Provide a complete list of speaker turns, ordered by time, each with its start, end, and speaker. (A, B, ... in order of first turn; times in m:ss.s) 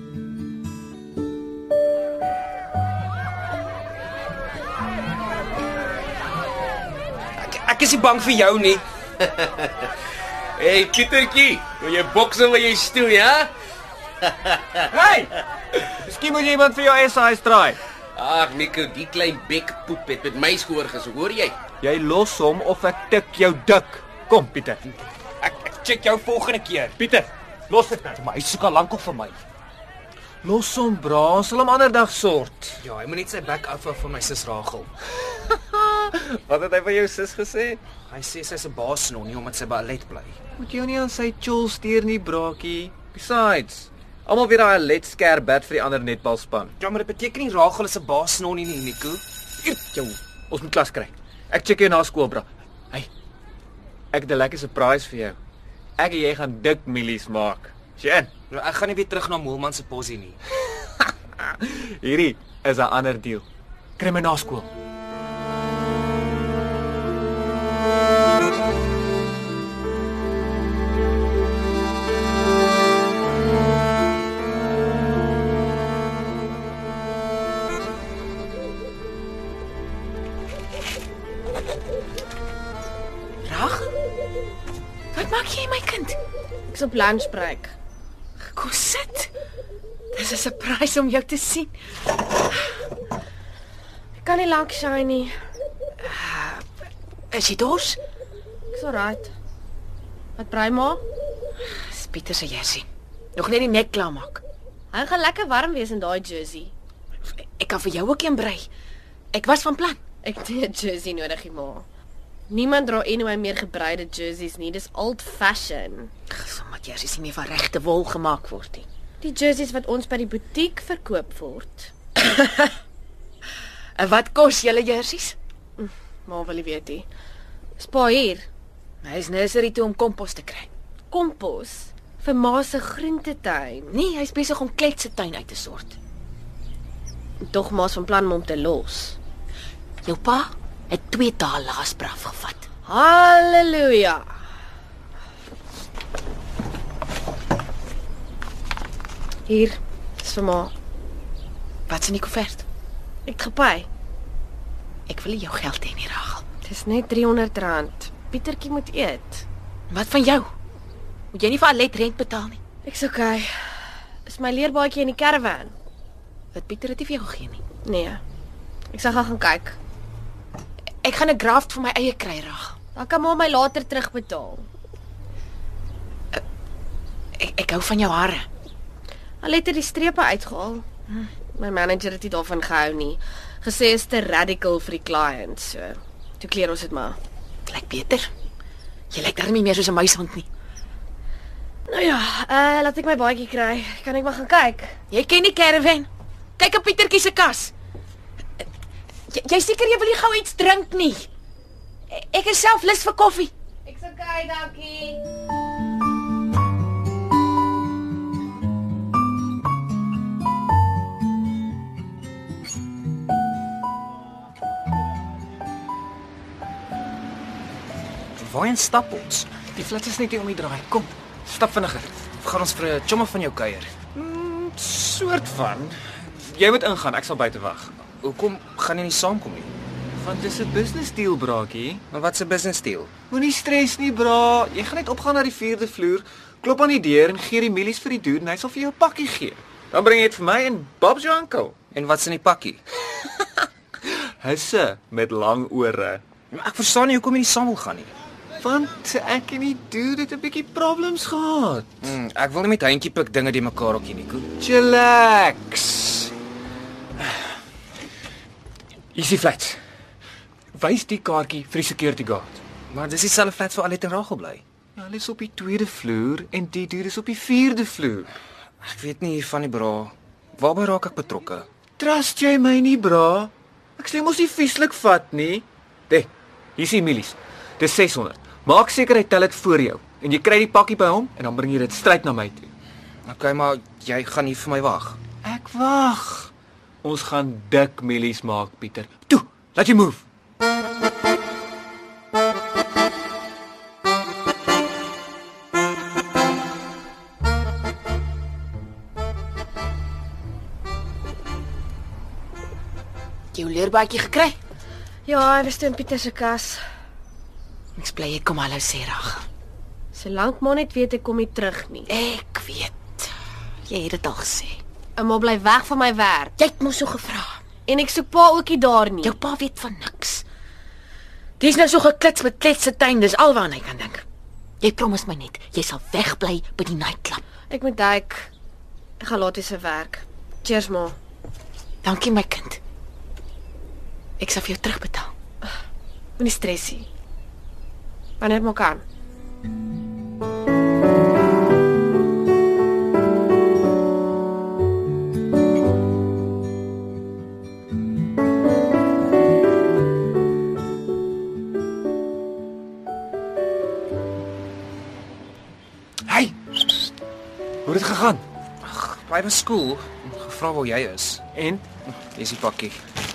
0:07.4-0:08.8 A
0:09.4-0:09.7 B
0:10.6-0:13.5 B
0:14.9-0:17.8 C
0:18.2-0:21.6 B
0:21.8-0:24.8 C
0:25.4-0:29.3 C
0:30.4-0:32.8 C
0:32.8-0:34.9 A
0:35.3-0:37.8 C
0:38.1-0:40.4 A
0:40.6-0:46.8 C
0:46.8-0:49.2 A
0:49.6-0:53.1 C
0:54.1-0:55.4 C
0:56.0-0:58.3 C
0:58.5-1:00.4 A
1:01.0-1:03.4 C
1:04.0-1:04.7 C
1:23.4-1:23.9 D
1:25.1-1:26.2 D
1:26.7-1:27.7 E
1:28.5-1:29.3 D
1:30.1-1:31.7 D
1:34.2-1:35.3 E
1:36.0-1:36.6 D
1:37.3-1:38.0 D
1:38.7-1:39.3 E
1:40.4-1:41.0 E
1:41.9-1:44.4 D
1:44.9-1:46.7 E
1:47.4-1:48.7 D
1:49.3-1:50.0 D
1:50.2-1:51.8 E
1:52.5-1:56.1 E
1:56.3-1:58.8 D
1:59.2-2:01.9 E
2:02.2-2:02.7 D
2:04.0-2:05.4 D
2:05.8-2:07.1 E
2:07.8-2:08.5 E
2:09.0-2:10.7 D
2:11.1-2:14.0 E
2:13.9-2:16.0 D
2:17.4-2:19.2 E
2:20.0-2:22.7 D
2:22.8-2:24.2 E
2:29.5-2:30.7 E
2:31.9-2:32.6 D
2:33.2-2:33.9 E
2:35.1-2:36.4 D
2:36.6-2:39.4 E
2:39.9-2:40.5 D
2:41.3-2:42.6 D
2:42.8-2:45.7 E
2:46.5-2:47.6 D
2:47.8-2:48.2 E
2:48.9-2:49.8 E
2:51.0-2:52.8 D
2:52.9-2:54.7 E
2:57.4-2:58.4 D
2:59.4-3:00.8 E
3:01.5-3:07.2 E
3:07.6-3:08.3 D
3:09.1-3:10.5 D
3:11.9-3:15.0 E
3:15.1-3:17.7 D
3:19.3-3:21.3 D
3:22.1-3:23.5 D
3:23.8-3:25.2 E
3:38.4-3:39.5 A
3:39.7-3:42.2 C
3:42.4-3:43.9 A
3:44.1-3:48.0 C
3:48.2-3:49.7 A
3:50.2-3:52.0 C
3:52.1-3:53.1 A
3:53.3-4:01.8 C
4:01.9-4:02.8 A
4:04.1-4:06.2 C
4:06.5-4:08.1 A
4:08.6-4:12.0 C
4:12.0-4:14.5 A
4:14.6-4:16.3 C
4:19.1-4:19.8 C
4:20.7-4:22.6 C
4:22.9-4:24.6 A
4:25.0-4:28.3 C
4:28.8-4:31.7 A
4:32.0-4:42.7 C
4:43.3-4:45.2 A
4:45.4-4:46.5 C
4:47.0-4:50.2 C
5:03.5-5:04.6 D
5:05.2-5:06.8 E
5:08.0-5:09.4 D
5:10.1-5:12.1 E
5:12.1-5:13.3 D
5:13.9-5:14.8 D
5:15.2-5:16.5 E
5:16.6-5:17.6 D
5:17.8-5:19.3 E
5:19.2-5:20.4 D
5:21.6-5:24.2 D
5:24.8-5:27.4 D
5:27.7-5:28.5 E
5:29.2-5:31.2 E
5:32.0-5:32.8 D
5:34.4-5:35.3 D
5:36.4-5:37.0 E
5:38.4-5:39.0 E
5:56.2-5:57.1 C
5:57.8-5:58.4 C
5:58.8-6:01.4 A
6:01.5-6:01.8 C
6:02.1-6:03.0 A